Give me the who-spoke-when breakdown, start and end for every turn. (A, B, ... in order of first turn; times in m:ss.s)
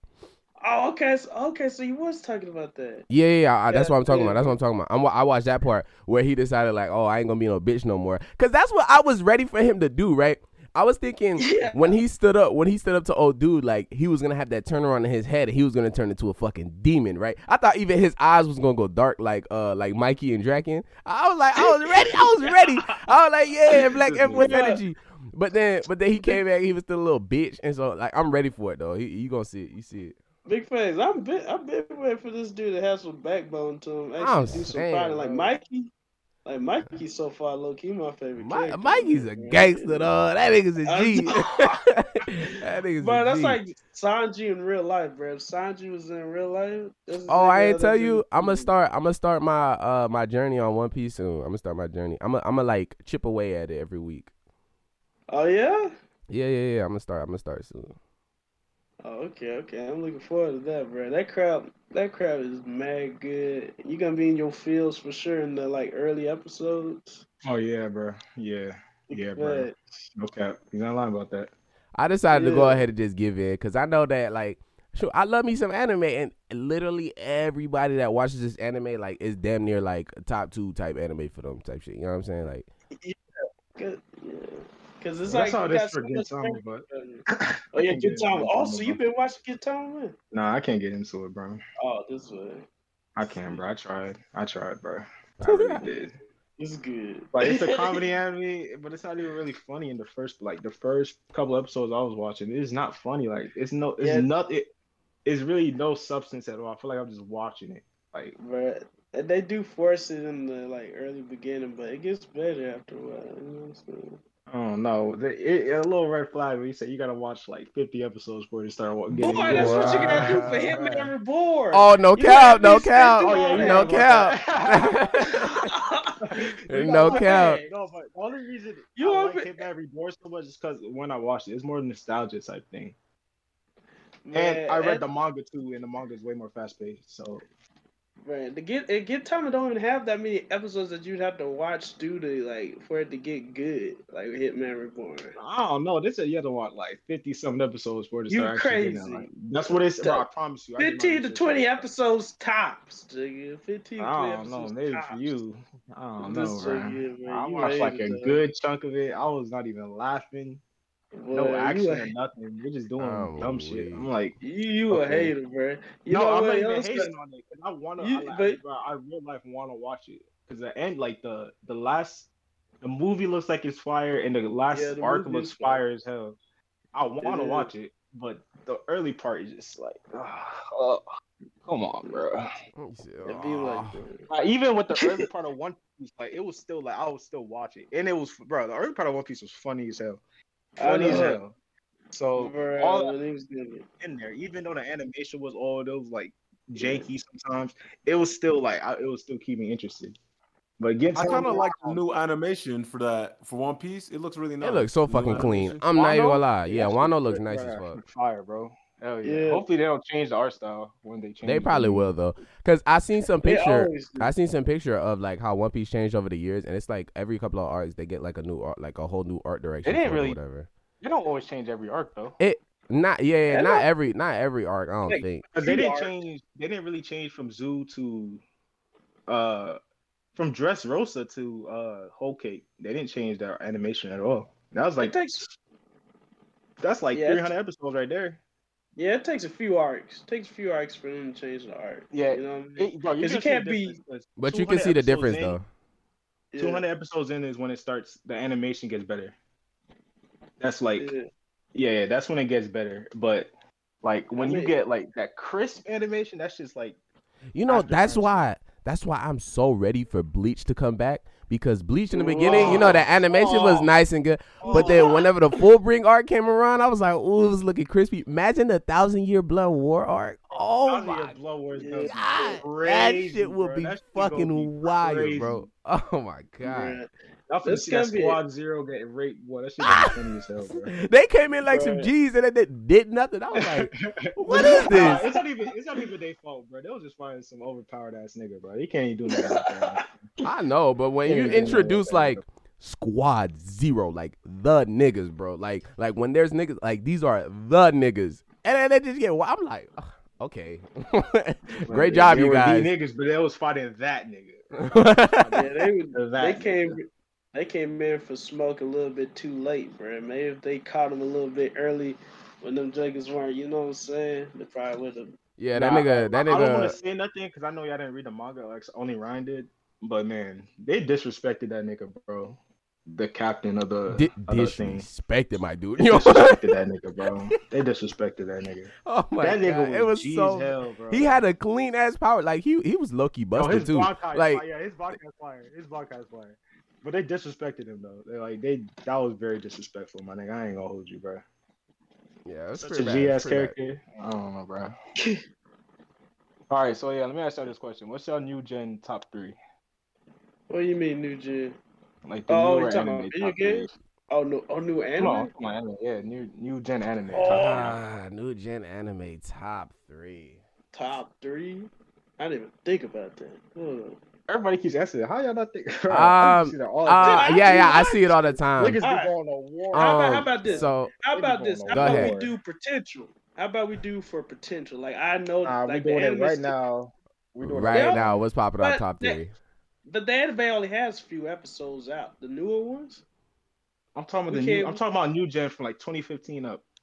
0:00.6-0:03.0 A
0:03.1-0:30.2 B
0:03.7-0:04.5 A
0:11.4-0:12.0 A
0:21.6-0:23.1 A
0:23.7-0:24.8 A
0:24.0-0:24.5 C
0:26.2-0:26.4 A
0:30.4-0:35.9 A
0:34.2-0:35.5 B
0:36.4-0:40.1 A
0:38.4-0:43.6 B
0:40.8-0:41.8 A
0:43.0-0:48.7 A
0:47.3-0:54.3 B
0:55.3-0:55.9 A
0:56.3-0:58.0 B
0:59.0-1:07.2 A
1:07.4-1:11.5 D
1:09.1-1:09.8 A
1:11.9-1:22.7 B
1:12.3-1:12.8 A
1:23.8-1:30.1 A
1:25.3-1:29.0 D
1:30.3-1:31.6 D
1:31.8-1:32.6 A
1:33.2-1:36.1 D
1:33.2-1:33.5 A
1:35.4-1:35.8 B
1:36.6-1:38.0 A
1:37.3-1:44.7 D
1:44.0-1:44.3 A
1:45.2-1:48.4 D
1:48.4-1:54.2 A
1:54.5-2:01.1 D
1:59.1-2:03.9 A
1:59.5-2:00.6 B
2:01.7-2:05.7 B
2:03.2-2:05.3 D
2:05.2-2:07.7 A
2:06.2-2:12.9 D
2:06.7-2:07.6 B
2:09.0-2:09.6 A
2:14.2-2:15.0 A
2:14.3-2:17.4 D
2:18.2-2:25.3 A
2:25.4-2:31.9 D
2:28.3-2:30.2 A
2:30.8-2:35.3 A
2:34.0-2:40.6 D
2:36.2-2:38.4 A
2:41.2-2:42.1 A
2:41.3-2:44.4 D
2:43.0-2:44.1 B
2:44.4-2:47.1 A
2:44.9-2:45.3 D
2:46.1-2:52.3 D
2:48.0-2:48.6 A
2:52.8-2:56.4 D
2:54.7-2:55.8 A
2:56.9-3:01.0 D
2:57.2-2:57.7 A
3:01.6-3:02.5 D
3:02.8-3:04.0 B
3:03.2-3:04.2 A
3:04.3-3:10.2 D
3:05.0-3:05.2 A
3:10.8-3:11.4 A
3:10.8-3:11.5 D
3:12.1-3:13.1 D
3:12.4-3:13.8 A
3:14.0-3:20.2 D
3:16.8-3:17.0 A
3:20.8-3:22.0 D
3:21.1-3:25.9 C
3:21.2-3:21.6 A
3:24.6-3:28.0 B
3:25.3-3:32.1 D
3:29.2-3:29.6 A
3:31.4-3:40.7 B
3:33.4-3:34.3 A
3:39.8-3:40.4 D
3:41.0-3:42.4 D
3:42.4-3:45.4 B
3:43.5-3:43.9 A
3:45.0-3:46.1 A
3:45.5-3:48.4 D
3:49.3-3:49.8 D
3:50.4-3:55.2 D
3:55.0-3:55.4 A
3:56.8-3:58.4 D
3:57.1-3:57.5 A
3:59.0-4:04.0 A
4:02.1-4:05.6 D
4:04.4-4:05.6 B
4:06.5-4:06.8 A
4:06.6-4:09.3 D
4:10.6-4:11.1 D
4:11.0-4:11.3 A
4:11.7-4:13.5 D
4:14.0-4:17.0 D
4:14.4-4:14.7 A
4:17.5-4:31.3 B
4:17.7-4:18.5 D
4:22.1-4:23.7 A
4:22.4-4:23.9 D
4:24.6-4:25.1 D
4:24.6-4:25.2 A
4:30.8-4:35.7 D
4:31.8-4:32.6 A
4:32.0-4:37.0 B
4:36.6-4:37.1 A
4:37.5-4:40.9 D
4:37.6-4:38.4 A
4:39.8-4:40.1 B
4:40.7-4:45.3 B
4:41.6-4:42.1 A
4:43.5-4:50.2 D
4:44.5-4:45.3 A
4:49.3-4:49.7 A
4:50.4-5:02.9 B
4:51.2-4:52.4 D
4:51.4-4:51.8 A
5:01.7-5:05.5 D
5:04.8-5:05.7 B
5:05.5-5:15.4 A
5:06.1-5:07.0 D
5:15.6-5:16.9 B
5:15.7-5:25.1 D
5:24.1-5:26.8 B
5:26.0-5:31.4 D
5:29.0-5:34.6 B
5:33.5-5:41.4 D
5:42.4-5:43.7 B
5:42.7-5:44.9 D
5:46.7-5:49.6 D
5:50.7-5:51.8 A
5:52.2-5:54.0 D
5:52.5-5:55.5 A
5:55.2-5:57.9 D
5:57.3-5:57.9 A
5:57.5-6:00.6 B
6:00.9-6:04.2 A
6:04.5-6:08.0 D
6:06.1-6:09.0 B
6:07.2-6:09.3 A
6:08.8-6:12.5 D
6:09.9-6:11.1 B
6:09.9-6:16.7 A
6:11.9-6:12.3 B
6:15.6-6:18.4 D
6:17.6-6:19.5 B
6:17.9-6:19.4 A
6:20.1-6:23.2 A
6:24.1-6:26.8 D
6:24.5-6:25.0 A